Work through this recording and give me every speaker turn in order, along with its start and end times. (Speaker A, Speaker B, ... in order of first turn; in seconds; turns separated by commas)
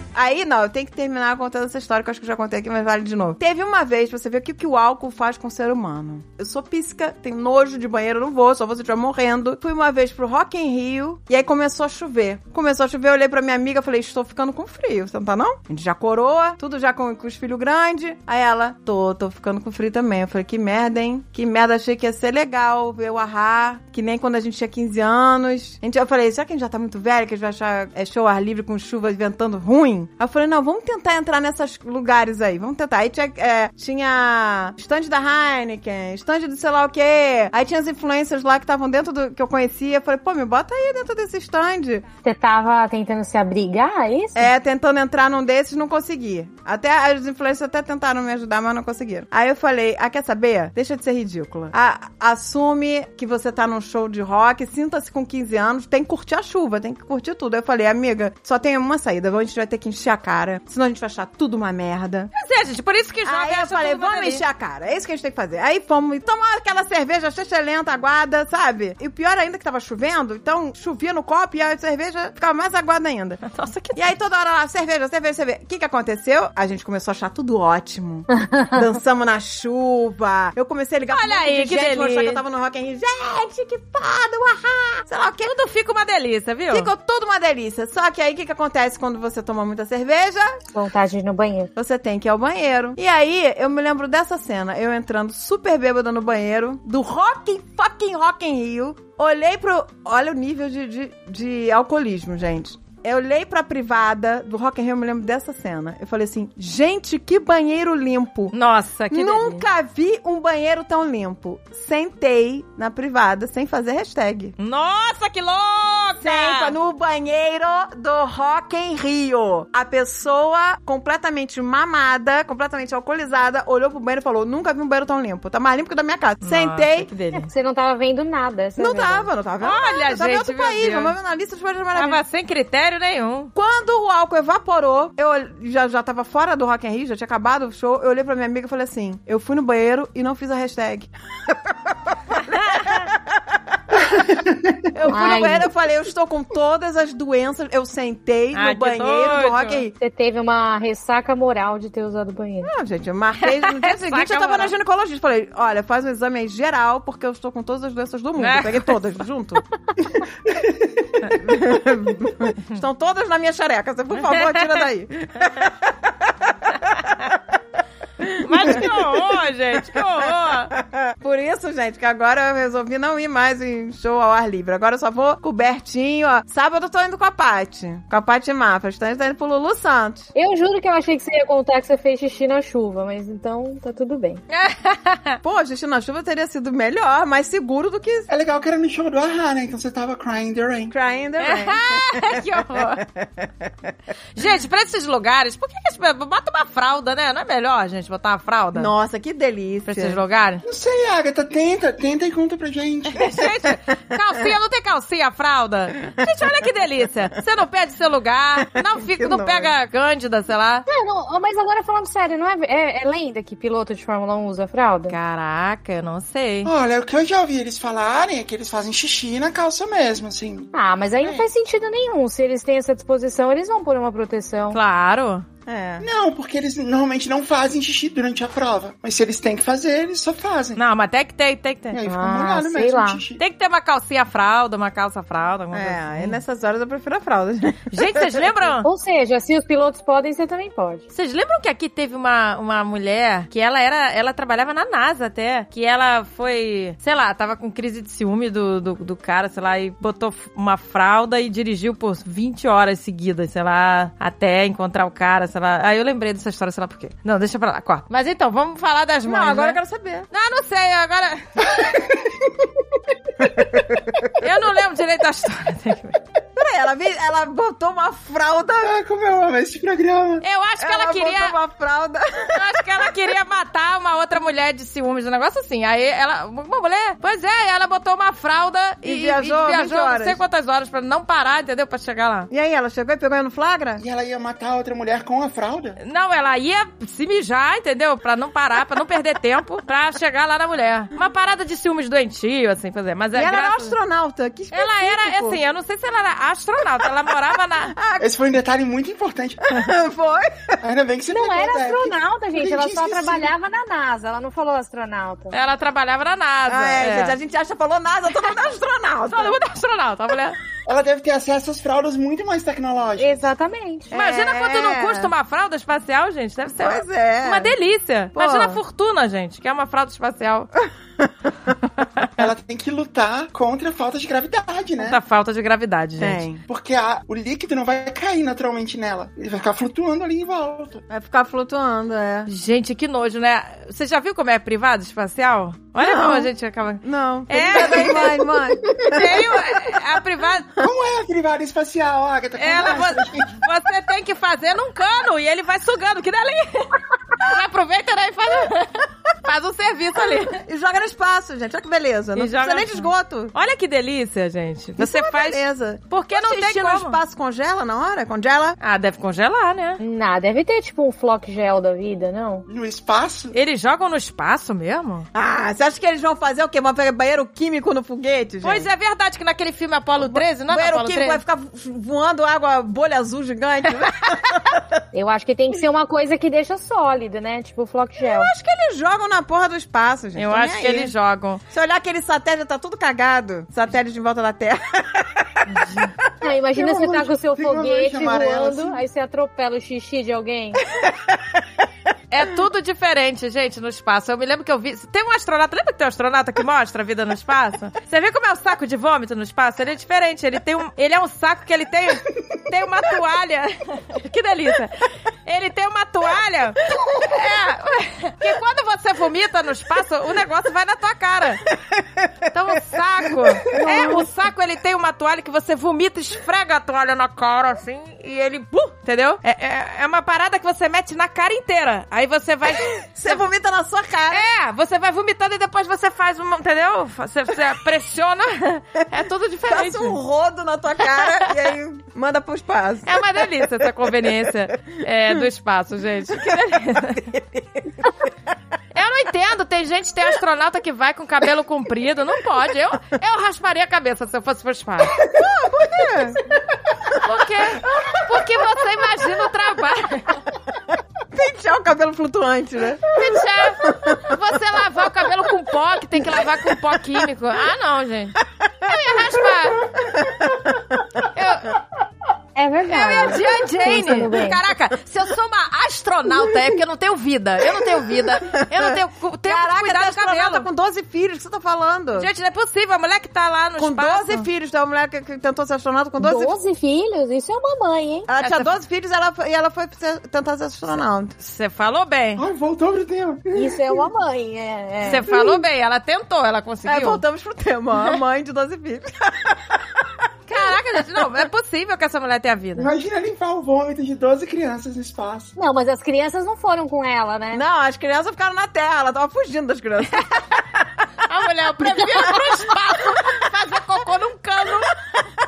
Speaker A: 0.1-42.0, Speaker B: 42.2-44.5, Speaker A: 44.3-62.3, Speaker C: 62.3-64.4, Speaker A: 63.2-73.4, Speaker C: 73.5-74.0, Speaker A: 73.9-85.5, Speaker C: 81.1-82.4, Speaker C: 85.4-86.9, Speaker A: 86.7-90.6, Speaker B: 90.7-91.7, Speaker A: 91.8-108.5, Speaker C: 108.5-109.6, Speaker A: 109.1-114.5, Speaker C: 114.6-116.7, Speaker A: 116.2-127.1, Speaker C: 126.4-127.5, Speaker B: 127.3-129.3, Speaker A: 128.8-132.2, Speaker C: 129.6-131.1, Speaker C: 131.9-133.5, Speaker A: 133.5-143.2, Speaker C: 142.5-143.1, Speaker A: 144.9-149.9, Speaker B: 145.1-145.7, Speaker C: 148.5-149.8, Speaker B: 150.0-152.7, Speaker A: 152.6-159.6, Speaker C: 153.4-154.7, Speaker C: 158.4-158.9, Speaker D: 160.4-161.4, Speaker A: 161.3-167.0, Speaker C: 164.2-164.8, Speaker A: 168.2-169.3, Speaker C: 168.4-170.7, Speaker A: 169.9-180.3, Speaker B: 180.3-184.4, Speaker C: 184.5-185.4, Speaker A: 185.4-188.3, Speaker D: 188.3-190.9, Speaker A: 190.9-193.9, Speaker C: 191.4-193.0, Speaker C: 194.3-198.9, Speaker A: 198.7-200.2, Speaker C: 199.9-200.6, Speaker D: 200.6-203.5, Speaker C: 203.1-210.8, Speaker A: 208.7-209.7, Speaker B: 210.9-215.1, Speaker C: 215.1-216.7, Speaker D: 216.6-221.4, Speaker B: 220.7-224.8, Speaker C: 224.7-225.4, Speaker A: 225.7-226.1, Speaker D: 226.0-230.8, Speaker C: 230.8-232.0, Speaker D: 231.9-233.4, Speaker B: 232.1-233.2, Speaker C: 233.4-236.4, Speaker A: 235.7-238.6, Speaker C: 237.9-238.9, Speaker B: 238.8-241.0, Speaker C: 241.1-259.8, Speaker A: 259.2-260.3, Speaker C: 260.3-261.8, Speaker D: 261.6-262.7, Speaker C: 264.4-266.2, Speaker A: 266.6-268.9, Speaker D: 268.8-270.4, Speaker C: 270.4-271.6, Speaker A: 270.8-272.7, Speaker C: 272.5-282.5, Speaker A: 279.0-280.4, Speaker A: 282.5-284.0, Speaker D: 284.0-286.0, Speaker C: 286.0-293.9, Speaker A: 293.3-295.6, Speaker C: 294.7-297.9, Speaker A: 297.8-298.3, Speaker D: 298.2-299.6, Speaker A: 299.6-300.8, Speaker D: 300.8-303.5, Speaker B: 301.3-305.5, Speaker C: 305.5-307.4, Speaker A: 306.7-309.6, Speaker C: 309.3-310.6, Speaker D: 310.9-313.5, Speaker B: 313.2-314.1, Speaker A: 314.1-315.3, Speaker C: 314.1-320.7, Speaker A: 316.8-317.7, Speaker A: 318.4-318.8, Speaker D: 322.4-325.2, Speaker C: 325.0-326.4, Speaker A: 326.2-326.6, Speaker D: 326.7-331.0, Speaker A: 331.1-332.5, Speaker C: 332.5-338.4, Speaker A: 336.0-336.5, Speaker A: 337.0-339.4, Speaker D: 337.7-339.5, Speaker C: 339.0-340.7, Speaker D: 340.8-343.6, Speaker C: 342.6-350.6, Speaker A: 350.3-353.5, Speaker C: 352.4-357.2, Speaker A: 355.0-358.8, Speaker C: 358.8-360.0, Speaker B: 360.0-362.6, Speaker D: 362.7-363.5, Speaker C: 363.5-365.3, Speaker A: 365.3-368.9, Speaker C: 368.6-371.4, Speaker A: 370.2-375.0, Speaker B: 375.1-378.5, Speaker A: 378.2-381.1, Speaker C: 380.4-381.6, Speaker A: 381.7-385.5, Speaker B: 386.4-390.8, Speaker D: 386.7-389.0, Speaker A: 391.1-391.4, Speaker C: 392.3-411.6, Speaker A: 411.7-412.4, Speaker C: 412.5-423.4, Speaker B: 413.7-414.3, Speaker A: 423.0-424.5, Speaker C: 424.3-430.2, Speaker A: 429.7-433.2, Speaker C: 431.2-431.5, Speaker C: 433.1-437.2, Speaker A: 437.1-438.1, Speaker C: 438.9-445.2, Speaker A: 445.2-446.4, Speaker C: 447.2-450.4, Speaker A: 451.3-453.2, Speaker C: 453.1-459.8, Speaker A: 453.9-454.4, Speaker D: 459.9-460.5, Speaker C: 461.3-461.7, Speaker B: 462.6-464.6, Speaker C: 462.9-470.7, Speaker A: 468.5-472.3, Speaker C: 472.1-474.4, Speaker A: 473.8-476.6, Speaker B: 476.2-478.3, Speaker A: 478.3-481.4, Speaker C: 478.4-478.7, Speaker C: 481.4-482.4, Speaker D: 482.4-484.0, Speaker B: 483.5-485.6, Speaker C: 485.0-487.2, Speaker A: 486.8-490.1, Speaker C: 490.5-492.9, Speaker D: 492.8-495.5, Speaker B: 495.6-497.6, Speaker A: 497.5-500.6, Speaker C: 501.2-504.9